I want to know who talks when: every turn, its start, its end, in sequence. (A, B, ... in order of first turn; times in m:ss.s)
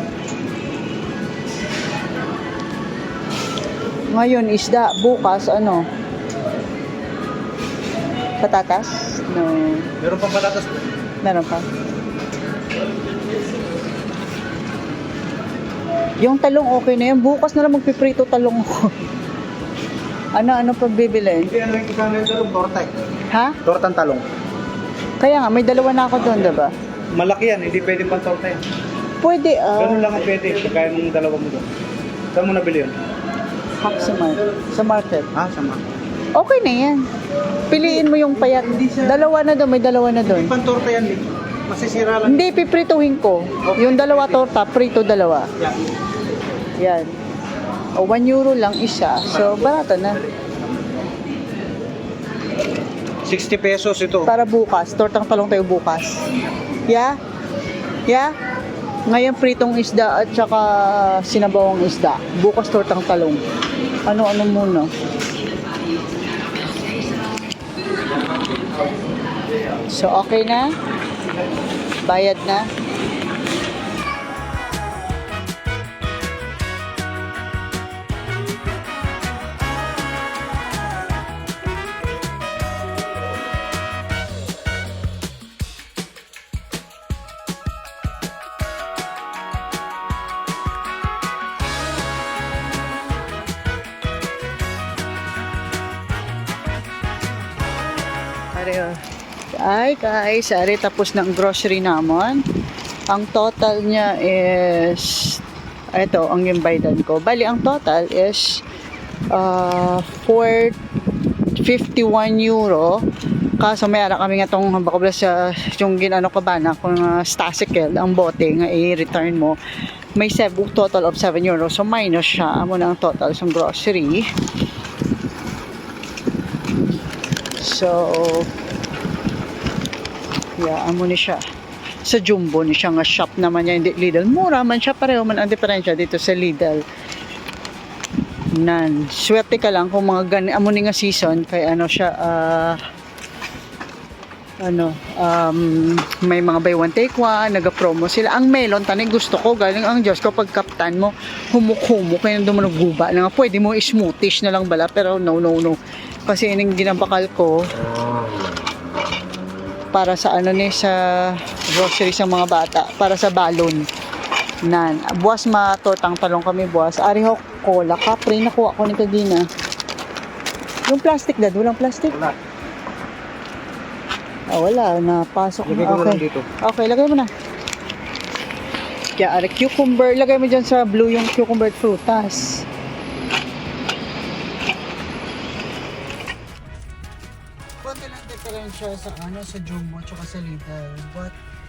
0:04.1-0:05.9 A
0:08.4-0:09.9 A
0:10.0-0:10.9 B
0:11.2-0:11.6 A
0:16.2-0:19.0 A
0:20.3-0:21.6 A
0:21.5-0:22.9 B
0:23.3-0:23.6 A
0:23.6-0:24.2 B
0:25.2-0:26.7 A
0:27.1-0:28.6 B
0:29.2-0:30.2 A
0:29.8-0:31.7 B
0:32.3-0:33.0 B
0:33.8-0:35.3 A
0:35.3-0:35.8 B
0:36.3-0:37.1 A
0:37.7-0:40.6 A
0:40.3-0:42.5 B
0:42.2-0:45.5 A
0:46.8-0:47.2 A
0:47.9-0:50.3 A
0:53.2-0:54.3 B
0:54.2-0:56.3 A
0:56.9-0:57.2 A
0:58.1-0:58.3 A
0:59.1-1:03.4 A
1:04.0-1:04.9 A
1:09.9-1:10.7 A
1:12.0-1:12.7 A
1:38.5-1:42.4 A
1:43.1-1:45.4 A
1:45.9-1:48.6 A
1:49.3-1:50.8 A
1:51.5-1:53.0 A
1:53.6-1:59.6 A
2:00.2-2:04.3 A
2:07.6-2:08.5 A
2:10.6-2:11.4 A
2:12.0-2:16.8 A
2:18.5-2:22.8 A
2:24.6-2:37.7 A
2:39.9-2:43.9 A
2:44.6-2:49.5 A
2:50.9-2:52.3 A
2:54.5-2:57.3 A
2:55.6-2:56.5 B
2:59.2-3:02.6 A
3:07.8-3:11.4 A